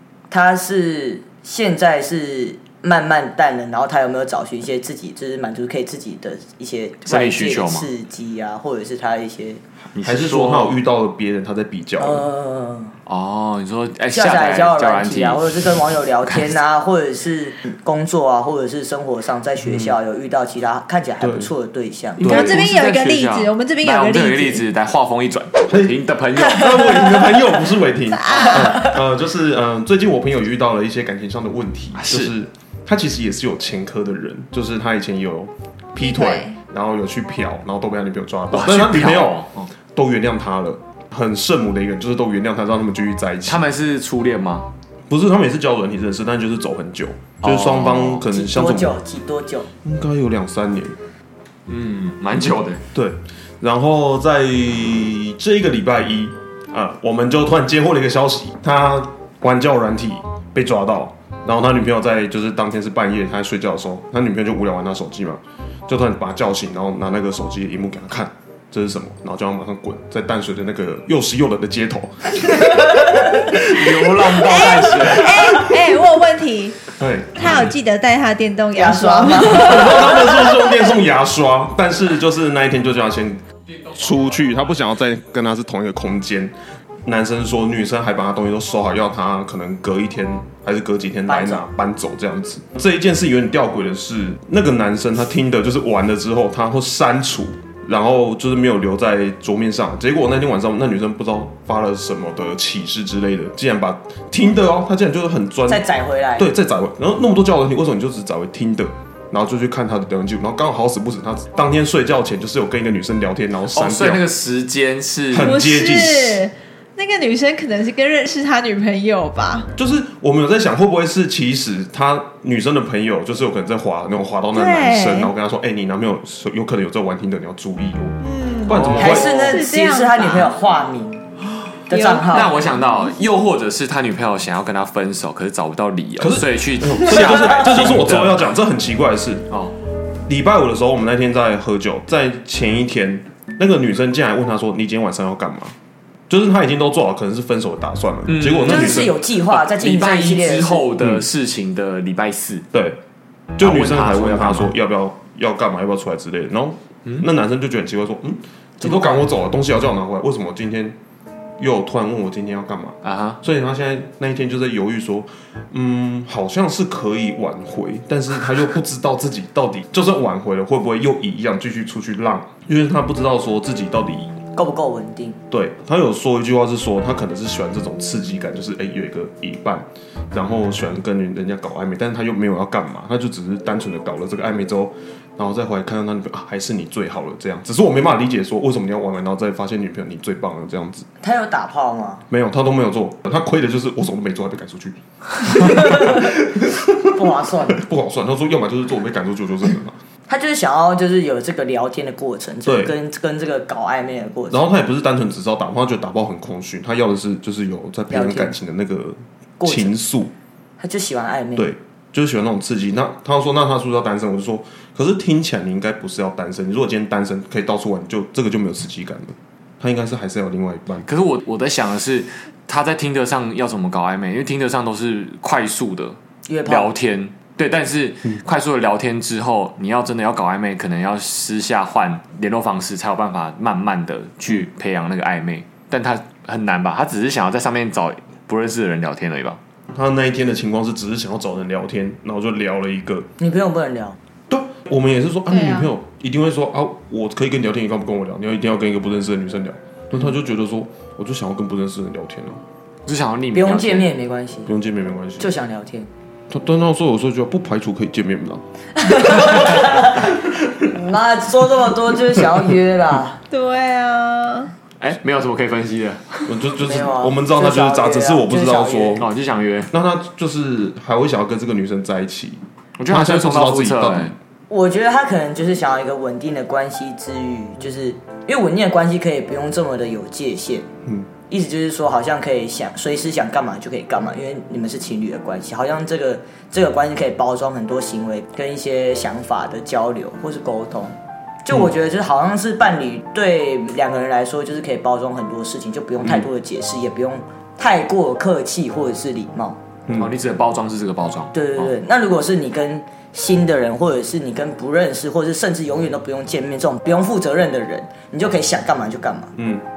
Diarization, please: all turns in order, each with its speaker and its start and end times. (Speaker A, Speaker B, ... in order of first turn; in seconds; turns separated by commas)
Speaker A: 0.3-9.6, Speaker B: 7.1-7.9, Speaker B: 9.9-10.8, Speaker C: 10.0-12.3, Speaker A: 12.0-13.0, Speaker B: 13.1-16.5, Speaker A: 14.1-22.3, Speaker C: 19.6-20.0, Speaker C: 21.2-21.5, Speaker B: 22.2-27.0, Speaker C: 22.2-22.6, Speaker D: 22.2-24.6, Speaker C: 25.7-43.6, Speaker A: 26.8-27.4, Speaker D: 28.1-28.9, Speaker A: 28.6-28.9, Speaker B: 31.9-32.3, Speaker D: 36.0-36.6, Speaker B: 38.5-39.7, Speaker B: 43.5-44.7, Speaker C: 45.1-49.0, Speaker B: 47.4-48.2, Speaker A: 48.2-49.7, Speaker C: 49.8-51.0, Speaker B: 51.7-52.8, Speaker C: 52.9-74.3, Speaker B: 73.4-75.5, Speaker D: 74.4-76.8, Speaker C: 77.0-77.7, Speaker D: 77.3-80.3, Speaker A: 78.8-80.4, Speaker C: 79.5-86.5, Speaker C: 87.0-105.8, Speaker A: 91.3-91.7, Speaker A: 105.7-106.5, Speaker C: 106.4-114.2, Speaker B: 113.7-115.6, Speaker C: 115.3-116.4, Speaker D: 115.4-119.7, Speaker C: 119.8-129.5, Speaker D: 124.5-125.3, Speaker D: 128.2-130.5, Speaker B: 128.7-129.4, Speaker A: 129.0-131.2, Speaker A: 131.9-132.6, Speaker D: 131.9-132.8, Speaker B: 132.2-138.5, Speaker C: 136.2-139.5, Speaker C: 140.3-145.8, Speaker C: 146.3-149.2, Speaker B: 148.3-152.7, Speaker A: 148.7-150.9, Speaker C: 152.7-153.0, Speaker C: 153.6-161.0, Speaker B: 153.6-154.7, Speaker B: 158.8-159.1, Speaker C: 161.6-174.4, Speaker B: 163.0-163.4, Speaker A: 174.6-175.4, Speaker C: 175.5-191.1, Speaker A: 191.2-192.2, Speaker C: 192.3-200.0, Speaker A: 195.6-196.3, Speaker A: 197.1-197.8, Speaker A: 200.3-204.6, Speaker C: 202.7-202.9, Speaker C: 204.5-210.3, Speaker A: 208.1-208.5, Speaker A: 209.6-209.9, Speaker A: 210.8-211.7, Speaker C: 211.6-221.1, Speaker B: 221.1-239.6, Speaker A: 226.5-226.9, Speaker C: 239.9-243.3, Speaker A: 243.4-244.2, Speaker C: 244.5-252.6, Speaker D: 245.5-245.9, Speaker B: 253.1-254.1, Speaker A: 253.5-254.7, Speaker C: 254.7-255.6, Speaker A: 255.4-256.1, Speaker C: 256.5-258.6, Speaker A: 259.0-263.4, Speaker C: 259.1-260.5, Speaker D: 263.5-264.7, Speaker B: 265.0-266.6, Speaker C: 266.5-269.3, Speaker A: 266.8-269.2, Speaker B: 269.2-269.9, Speaker C: 269.9-274.4, Speaker B: 273.0-274.3, Speaker A: 274.7-280.9, Speaker A: 281.5-299.8, Speaker C: 300.1-300.3, Speaker B: 300.1-301.9, Speaker A: 301.5-309.5, Speaker C: 309.6-309.8